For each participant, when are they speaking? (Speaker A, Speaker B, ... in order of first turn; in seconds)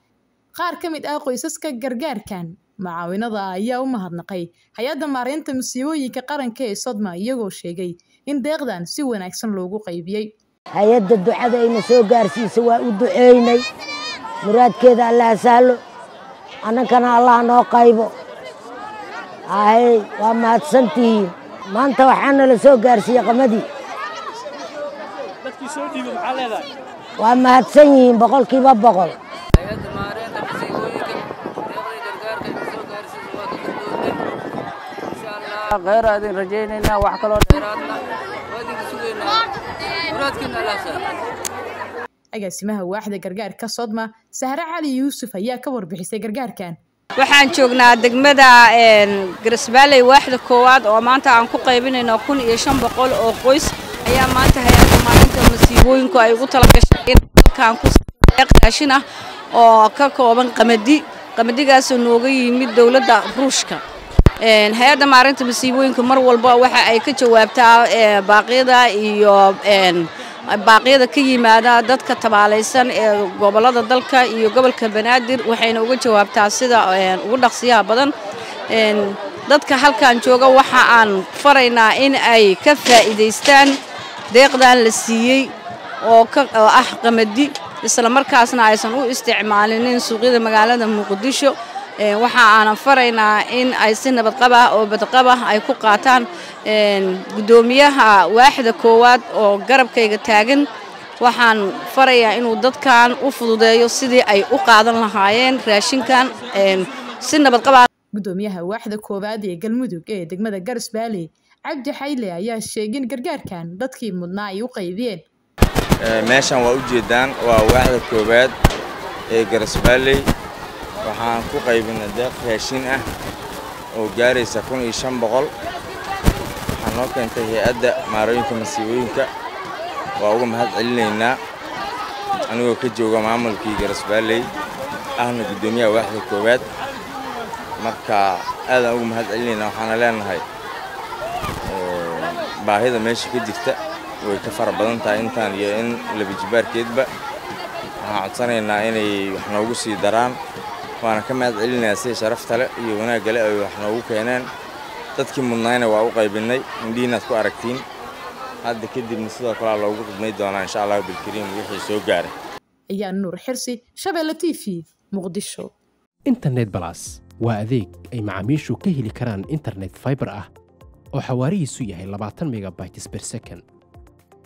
Speaker A: 0.5-10.3, 42.3-46.8, 108.2-115.2, 162.9-165.7
Speaker B: 10.7-13.6, 14.4-15.8, 16.6-18.1, 19.5-23.7, 27.2-29.2
Speaker C: 26.0-26.5, 29.8-31.2, 31.8-34.2, 37.5-37.9, 38.6-39.4, 40.1-41.0
Speaker D: 35.7-37.6, 47.2-59.0, 59.5-63.8, 64.4-78.1, 78.7-83.8, 84.3-100.7, 101.2-107.8
Speaker E: 116.0-118.5, 119.3-120.2, 121.0-123.1, 123.9-125.5, 126.8-129.3, 130.2-131.4, 132.5-134.5, 135.2-136.6, 137.8-140.4, 141.7-147.1, 148.0-150.4, 151.0-154.5, 155.2-157.8, 158.6-162.3
Speaker F: 166.3-170.4, 171.2-173.6